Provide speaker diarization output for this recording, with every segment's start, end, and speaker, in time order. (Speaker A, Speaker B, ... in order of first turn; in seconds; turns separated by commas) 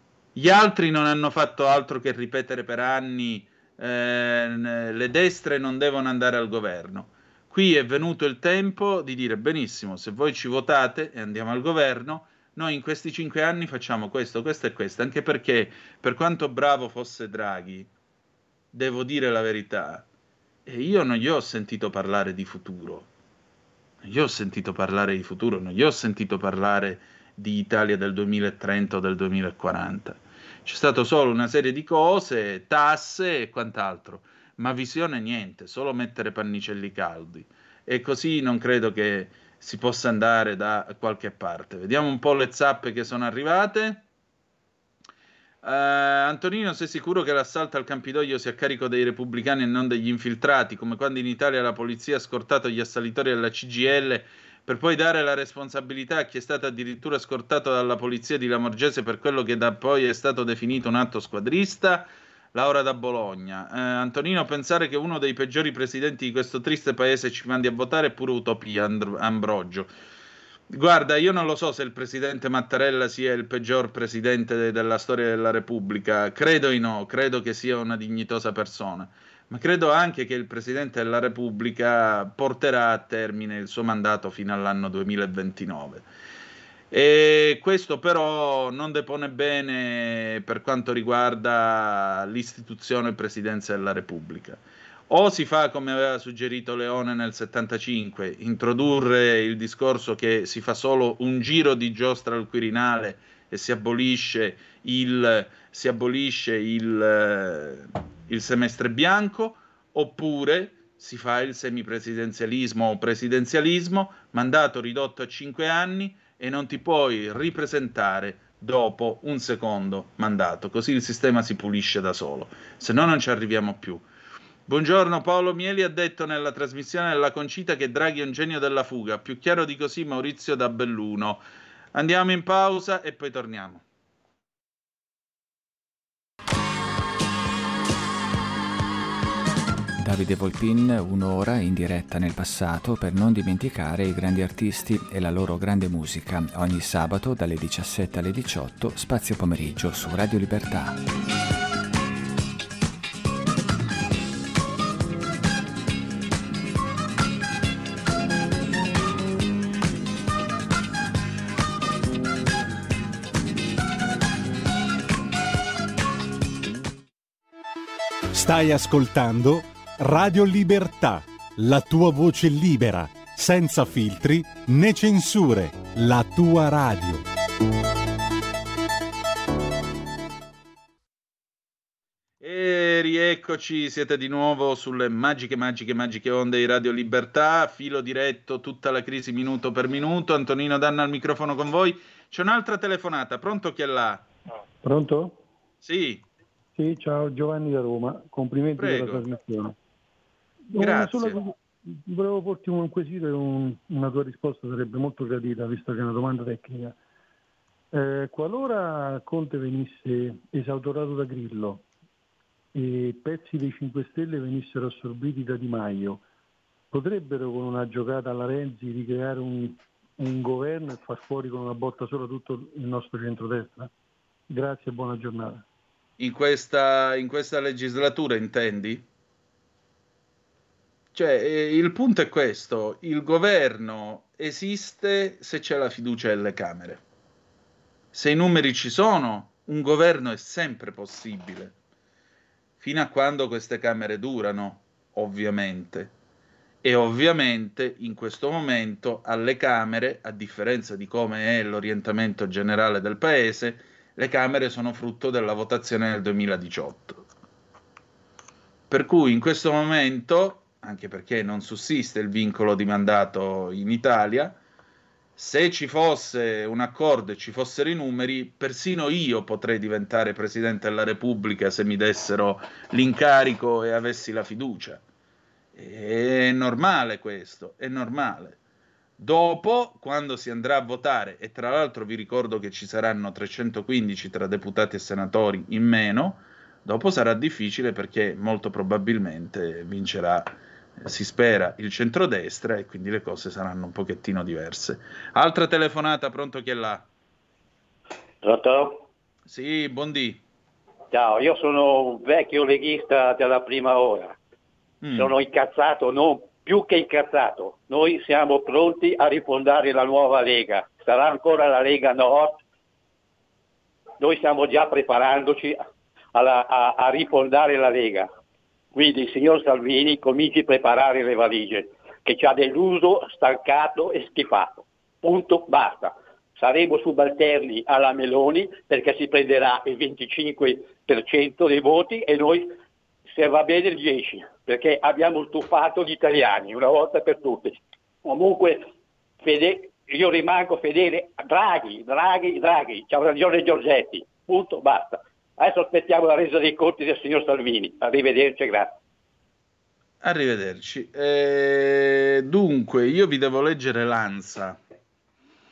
Speaker A: 0.3-17.9, Speaker A: 18.7-20.0, Speaker A: 20.6-23.1, Speaker A: 24.0-44.0, Speaker A: 45.6-69.9, Speaker A: 70.7-86.1, Speaker A: 86.9-124.1, Speaker A: 124.7-131.4, Speaker A: 131.9-133.8, Speaker B: 140.0-151.0, Speaker C: 168.3-177.2, Speaker A: 182.4-194.2, Speaker D: 194.8-195.4, Speaker A: 195.8-196.2, Speaker D: 196.8-199.7, Speaker A: 198.8-199.3, Speaker D: 200.7-206.9, Speaker A: 200.8-201.4, Speaker D: 207.9-211.8, Speaker D: 212.7-216.2, Speaker D: 216.9-223.9, Speaker D: 224.5-225.6, Speaker A: 226.2-229.1, Speaker A: 231.1-237.0, Speaker A: 238.1-241.7, Speaker A: 242.8-246.1, Speaker A: 246.8-257.2, Speaker A: 258.9-264.6, Speaker A: 265.4-275.0, Speaker A: 275.7-278.6, Speaker A: 279.2-297.1, Speaker E: 298.4-299.0, Speaker A: 299.4-300.4, Speaker E: 301.1-304.4, Speaker A: 305.0-305.3, Speaker E: 305.1-312.6, Speaker E: 314.2-318.3, Speaker E: 318.9-332.7, Speaker E: 333.3-338.9, Speaker E: 339.4-348.9, Speaker A: 350.2-354.8